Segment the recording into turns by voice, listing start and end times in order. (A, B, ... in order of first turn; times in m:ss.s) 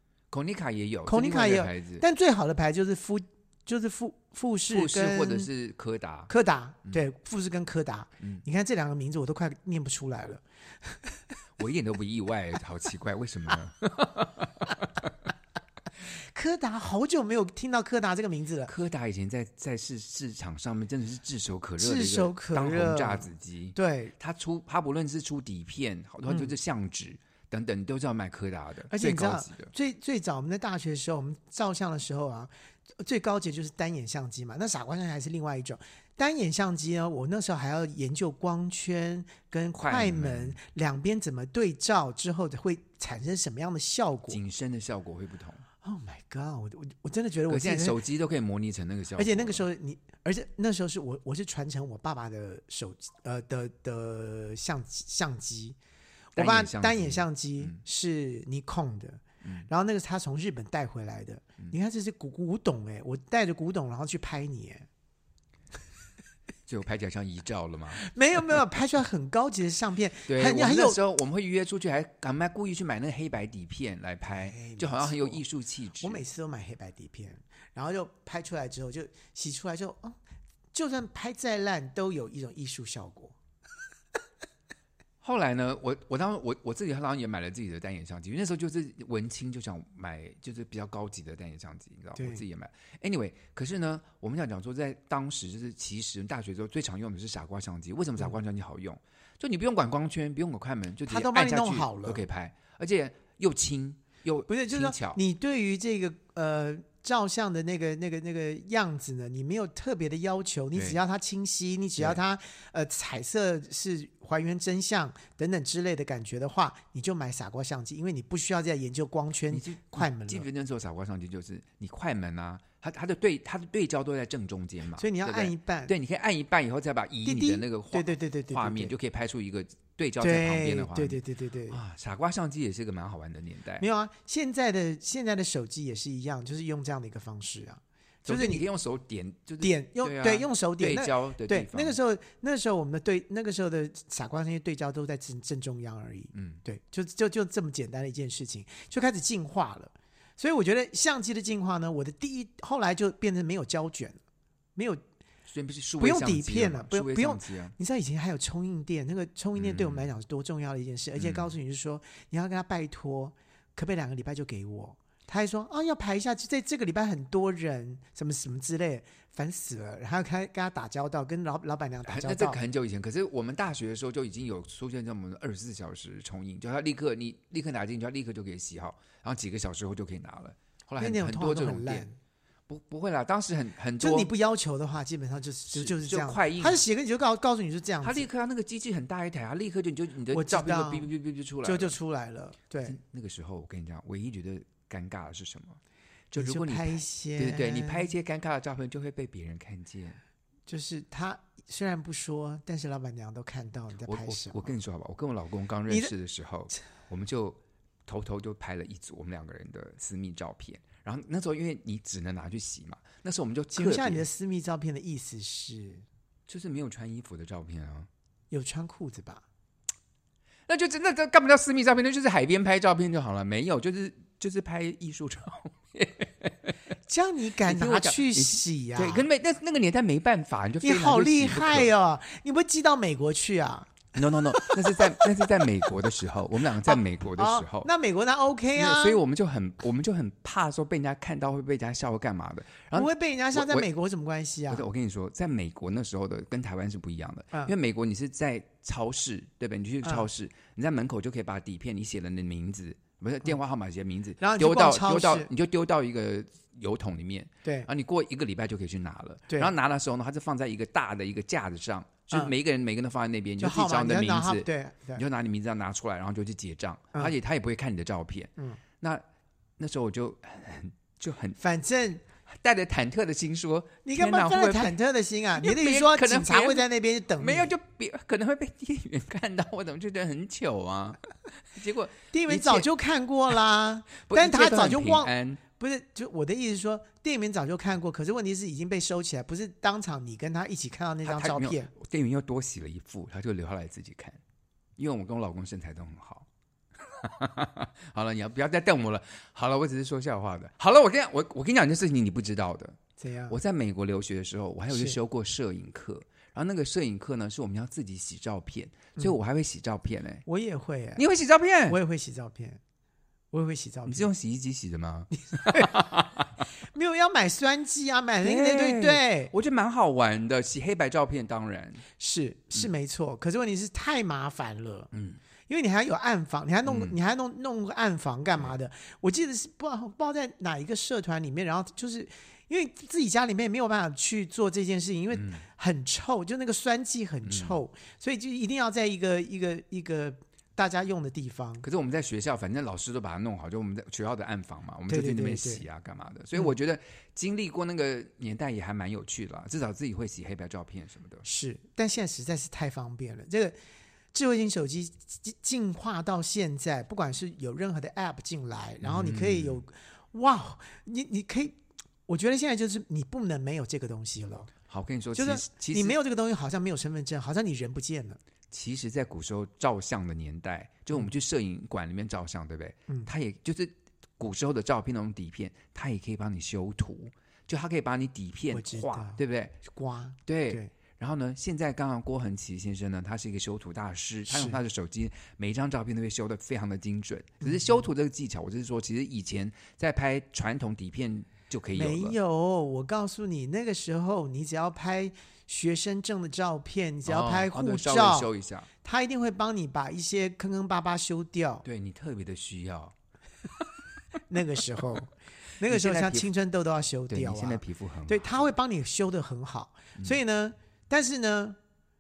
0:00.3-0:02.0 A
0:01.1-0:05.5 B
0:04.7-0:06.3 A
0:06.3-0:11.2 B
0:11.6-0:15.1 A
0:16.1-0:18.7 B
0:18.7-0:29.7 A
0:21.8-0:24.1 B
0:26.3-0:26.6 B
0:28.9-0:44.4 B
0:39.8-0:40.6 A
0:44.3-0:45.6 A
0:45.8-0:48.0 B
0:47.5-0:49.6 A
0:49.2-0:55.8 B
0:56.4-0:57.8 A
0:56.4-1:04.9 B
0:59.4-0:59.7 A
1:06.7-1:08.0 A
1:08.0-1:11.0 B
1:10.3-1:16.2 A
1:14.3-1:15.4 B
1:16.0-1:20.2 B
1:20.7-1:23.4 B
1:25.2-1:45.2 A
1:32.2-1:32.4 B
1:41.1-1:42.2 B
1:44.5-2:00.5 B
1:50.7-1:51.0 A
1:59.5-2:13.9 A
2:05.0-2:05.9 B
2:07.2-2:08.9 B
2:10.2-2:11.8 B
2:13.8-2:18.6 B
2:18.2-2:22.0 A
2:19.6-2:34.2 B
2:26.3-2:26.6 A
2:34.8-2:35.0 B
2:35.5-2:37.8 A
2:36.0-2:52.6 B
2:39.6-2:40.1 A
2:41.2-2:41.5 A
2:52.1-3:02.1 A
3:01.0-3:02.2 B
3:02.7-3:04.3 A
3:04.0-3:08.3 B
3:05.7-3:06.8 A
3:08.0-3:12.0 A
3:10.3-3:11.1 B
3:11.6-3:13.0 B
3:12.8-3:15.8 A
3:16.3-3:20.2 A
3:16.4-3:18.1 B
3:20.7-3:24.7 B
3:24.0-3:34.2 A
3:25.9-3:26.1 B
3:33.7-3:36.0 B
3:36.5-3:38.1 A
3:38.5-3:39.4 B
3:40.7-3:46.7 A
3:47.1-3:49.3 B
3:47.7-3:51.9 A
3:50.8-3:55.1 B
3:54.2-3:57.9 A
3:56.8-3:59.2 B
3:58.7-4:03.9 A
4:03.0-4:04.8 B
4:04.7-4:29.2 A
4:14.4-4:15.5 B
4:23.6-4:25.2 B
4:29.8-4:31.6 A
4:31.6-4:32.2 B
4:32.5-4:35.0 A
4:34.0-4:37.7 B
4:35.6-4:36.9 A
4:37.4-4:42.9 A
4:42.3-4:51.9 B
4:44.2-4:45.6 A
4:51.2-4:54.4 A
4:55.0-4:56.5 A
4:57.0-5:10.4 A
5:03.2-5:03.6 B
5:04.9-5:05.2 B
5:10.5-5:11.2 B
5:11.2-5:12.0 A
5:11.9-5:12.8 B
5:13.5-5:14.3 B
5:14.1-5:16.5 A
5:15.4-5:16.0 B
5:16.8-5:19.5 B
5:18.4-5:22.0 A
5:22.2-5:25.1 B
5:25.1-5:25.4 A
5:25.7-5:41.8 B
5:26.8-5:27.2 A
5:35.3-5:35.6 A
5:37.5-5:37.8 A
5:41.8-5:51.4 A
5:45.1-5:45.8 B
5:51.4-5:53.8 B
5:54.3-6:04.7 B
5:59.0-5:59.8 A
6:04.9-6:06.2 A
6:05.4-6:08.4 B
6:08.7-6:19.8 A
6:18.7-6:20.9 B
6:20.5-6:32.4 A
6:24.5-6:24.8 B
6:27.6-6:28.1 B
6:31.9-6:38.5 B
6:37.2-6:38.9 A
6:39.0-6:41.8 B
6:41.8-6:43.2 A
6:44.5-6:51.8 B
6:45.8-6:46.5 A
6:47.3-6:48.7 A